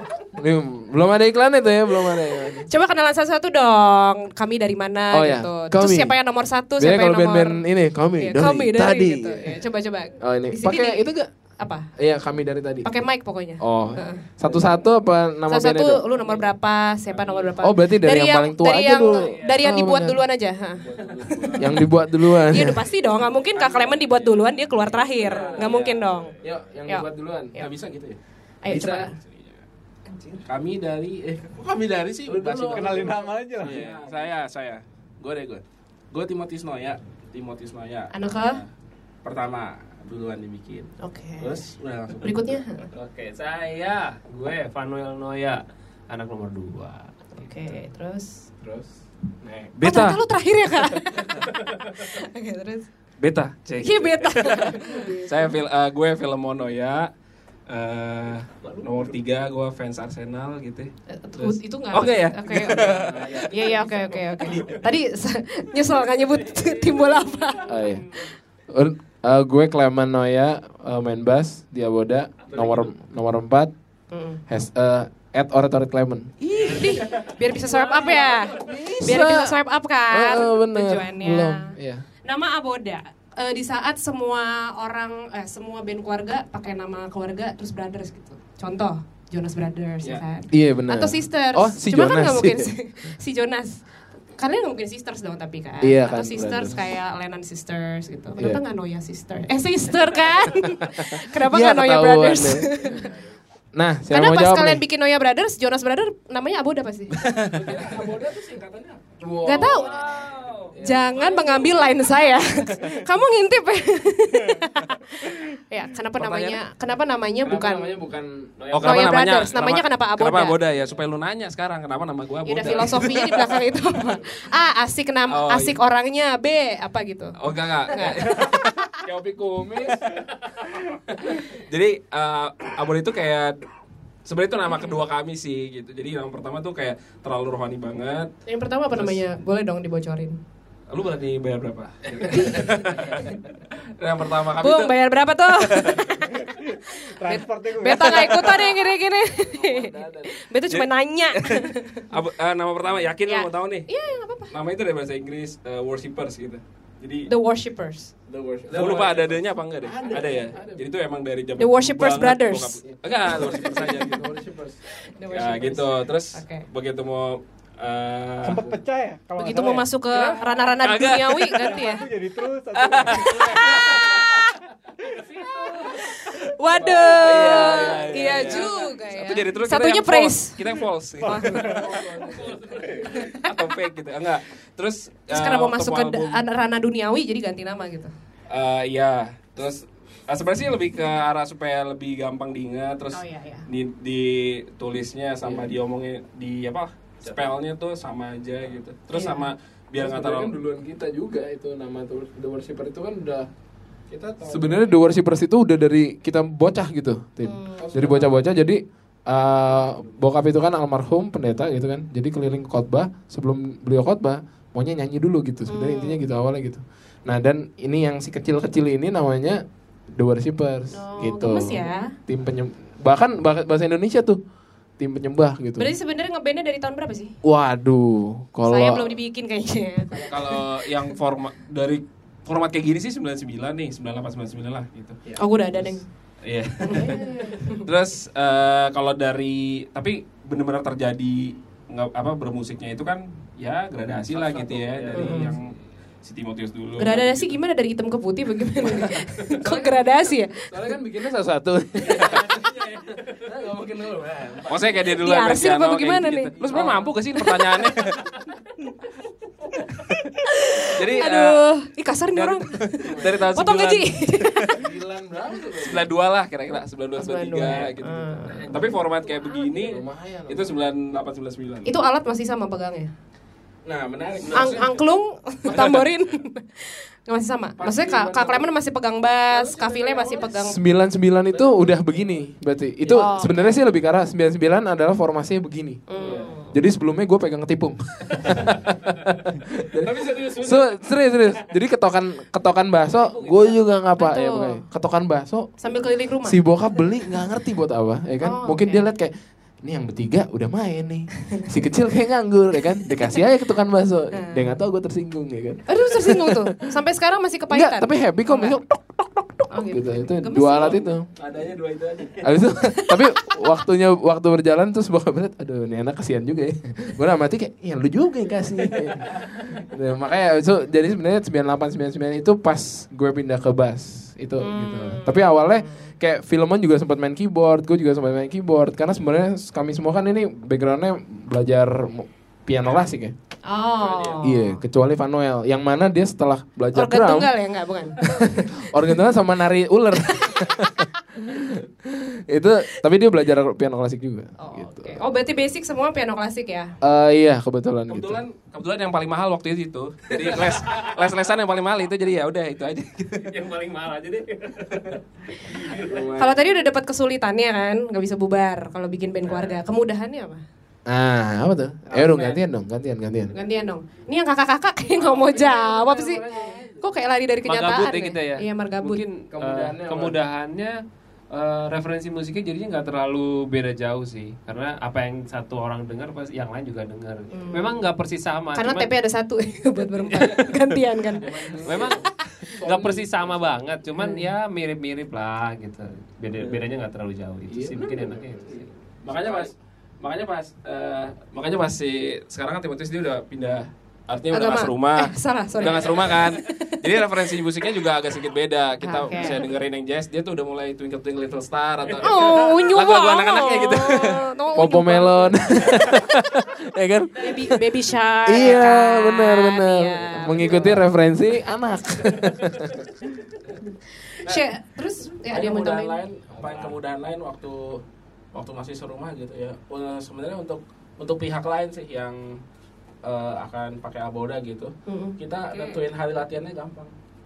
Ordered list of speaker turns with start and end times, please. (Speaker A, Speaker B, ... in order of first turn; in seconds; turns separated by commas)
Speaker A: 0.3-2.7, Speaker B: 2.6-7.6, Speaker A: 5.1-6.1, Speaker A: 6.8-9.5, Speaker B: 8.2-11.9, Speaker A: 10.2-11.3, Speaker A: 12.0-12.9, Speaker B: 12.8-14.2, Speaker A: 13.6-16.0, Speaker C: 14.4-14.8, Speaker B: 15.5-20.8, Speaker A: 17.6-20.2, Speaker D: 19.2-19.6, Speaker C: 20.8-21.9, Speaker A: 21.6-22.8, Speaker B: 22.2-26.3, Speaker C: 23.5-23.9, Speaker C: 25.2-25.8, Speaker D: 25.3-25.8, Speaker E: 25.4-25.9, Speaker A: 26.4-27.5, Speaker B: 26.9-27.7, Speaker C: 27.6-28.2, Speaker B: 28.6-29.1, Speaker A: 28.7-29.0, Speaker C: 28.7-29.6, Speaker C: 30.4-38.7, Speaker A: 32.2-33.8, Speaker F: 32.6-33.8, Speaker E: 33.6-33.9, Speaker B: 38.1-38.6, Speaker C: 39.2-42.6, Speaker B: 41.0-41.5, Speaker B: 42.2-42.9, Speaker D: 42.9-47.2, Speaker B: 47.3-48.5, Speaker A: 49.4-49.7, Speaker E: 49.7-50.2, Speaker B: 49.8-52.9, Speaker E: 53.2-57.1, Speaker B: 53.8-55.5, Speaker E: 57.7-63.2, Speaker D: 58.6-59.1, Speaker B: 61.1-68.2, Speaker A: 62.8-63.9, Speaker C: 63.0-63.4, Speaker A: 67.7-68.0, Speaker A: 68.7-73.7, Speaker D: 72.5-72.8, Speaker B: 74.1-74.4, Speaker A: 74.5-76.9, Speaker D: 76.6-77.2, Speaker B: 76.6-103.1, Speaker D: 77.9-78.5, Speaker A: 78.5-79.6, Speaker A: 80.1-82.0, Speaker A: 90.5-92.7, Speaker A: 95.8-96.8, Speaker A: 100.8-103.1, Speaker A: 103.7-104.8, Speaker B: 104.1-107.2, Speaker A: 107.2-107.7, Speaker C: 107.5-109.0, Speaker A: 109.2-110.1, Speaker B: 109.4-109.9, Speaker D: 109.8-110.7, Speaker C: 110.0-110.5, Speaker A: 110.7-111.1, Speaker B: 110.8-118.0, Speaker E: 116.2-116.6, Speaker A: 117.4-118.5, Speaker D: 118.6-119.4, Speaker E: 118.7-123.5, Speaker B: 118.8-120.6, Speaker B: 122.4-127.3, Speaker E: 125.3-125.8, Speaker E: 127.4-130.1, Speaker B: 127.9-128.4, Speaker E: 131.2-133.6, Speaker E: 134.2-138.3, Speaker B: 138.4-140.4, Speaker E: 138.9-139.2, Speaker E: 140.9-143.2, Speaker B: 142.3-143.4, Speaker E: 144.0-144.9, Speaker B: 144.6-152.1, Speaker E: 145.6-146.1, Speaker F: 146.4-148.6, Speaker C: 149.4-150.3, Speaker E: 150.7-153.9, Speaker B: 153.2-154.5, Speaker E: 154.5-157.3, Speaker B: 157.2-158.1, Speaker C: 158.3-160.8, Speaker E: 158.7-164.3, Speaker A: 159.9-160.7, Speaker B: 161.6-164.1, Speaker C: 163.5-164.8, Speaker A: 164.3-164.6, Speaker B: 165.0-166.7, Speaker E: 165.3-168.6, Speaker F: 168.4-169.9, Speaker B: 169.3-172.1, Speaker E: 170.1-171.8, Speaker F: 171.6-174.1, Speaker E: 172.7-173.7, Speaker B: 173.1-174.4, Speaker B: 175.7-182.0, Speaker C: 176.8-178.7, Speaker E: 176.9-181.8, Speaker C: 181.7-183.1, Speaker A: 181.8-182.4, Speaker E: 182.4-186.4, Speaker B: 182.9-183.6, Speaker B: 185.3-188.1, Speaker E: 188.5-200.5, Speaker B: 193.1-193.7, Speaker A: 195.4-195.7, Speaker C: 197.2-197.6, Speaker B: 199.1-199.5, Speaker A: 199.9-203.5, Speaker C: 204.1-205.0, Speaker A: 204.4-224.4, Speaker B: 207.4-207.8, Speaker C: 207.8-208.5, Speaker B: 215.7-216.2, Speaker B: 220.9-222.1, Speaker A: 225.0-225.9, Speaker B: 225.8-227.3, Speaker A: 227.4-229.1, Speaker B: 228.7-231.1, Speaker E: 230.3-235.2, Speaker B: 235.3-236.0, Speaker E: 236.4-247.5, Speaker B: 236.8-237.9, Speaker C: 244.3-245.7, Speaker B: 245.1-245.6, Speaker B: 247.0-250.7, Speaker A: 250.7-252.3, Speaker D: 252.2-253.0, Speaker A: 253.4-254.3, Speaker C: 253.5-255.1, Speaker E: 254.7-258.3, Speaker B: 255.2-256.5, Speaker B: 257.3-257.9, Speaker B: 260.4-264.8, Speaker E: 260.9-261.6, Speaker E: 262.3-264.7, Speaker A: 263.0-263.5, Speaker A: 264.8-266.1, Speaker E: 265.8-271.9, Speaker B: 267.2-268.8, Speaker D: 268.5-268.9, Speaker A: 269.8-270.8, Speaker B: 271.8-273.1, Speaker C: 273.8-275.1, Speaker D: 274.5-274.8, Speaker B: 274.5-280.8, Speaker E: 275.7-276.0, Speaker C: 277.8-278.7, Speaker C: 279.5-280.5, Speaker A: 280.4-286.1, Speaker C: 281.5-281.9, Speaker B: 283.0-283.7, Speaker B: 286.1-286.7, Speaker C: 286.2-286.6, Speaker A: 286.7-295.7, Speaker C: 289.9-291.0, Speaker D: 293.3-293.7, Speaker B: 294.2-294.8, Speaker B: 295.8-296.6, Speaker A: 296.4-306.9, Speaker B: 298.4-299.0, Speaker B: 303.1-303.4, Speaker B: 304.3-304.7, Speaker B: 305.9-308.8, Speaker A: 307.7-311.2, Speaker B: 309.7-311.1, Speaker C: 310.8-312.5, Speaker A: 312.4-333.3, Speaker B: 312.8-313.6, Speaker B: 324.6-326.1, Speaker B: 333.6-334.8, Speaker A: 334.4-337.5, Speaker B: 336.9-338.3, Speaker A: 338.2-345.2, Speaker B: 340.4-340.7, Speaker B: 344.6-346.9, Speaker A: 347.0-348.4, Speaker E: 348.1-353.5, Speaker D: 350.7-351.1, Speaker D: 353.4-356.3, Speaker C: 356.0-356.4, Speaker A: 356.1-356.5, Speaker B: 356.4-360.6, Speaker A: 361.1-363.5, Speaker C: 362.1-362.6, Speaker B: 363.5-366.4, Speaker C: 365.3-365.9, Speaker A: 365.4-366.9, Speaker C: 366.5-367.0, Speaker B: 367.0-369.2, Speaker D: 367.6-379.1, Speaker A: 369.5-370.4, Speaker B: 377.5-378.0, Speaker B: 378.7-382.0, Speaker D: 380.2-380.9, Speaker A: 381.4-382.1, Speaker C: 381.4-382.2, Speaker D: 381.8-388.9, Speaker A: 382.8-383.6, Speaker B: 384.2-384.4, Speaker A: 387.7-388.8, Speaker E: 389.2-404.5, Speaker C: 389.2-389.7, Speaker B: 394.5-397.3, Speaker B: 399.0-399.6, Speaker B: 402.2-406.2, Speaker A: 404.7-407.8, Speaker B: 407.4-411.0, Speaker A: 408.4-413.0, Speaker C: 410.5-410.9, Speaker B: 414.2-416.2, Speaker C: 415.4-422.6, Speaker A: 416.6-416.9, Speaker C: 423.2-427.1, Speaker B: 425.1-425.9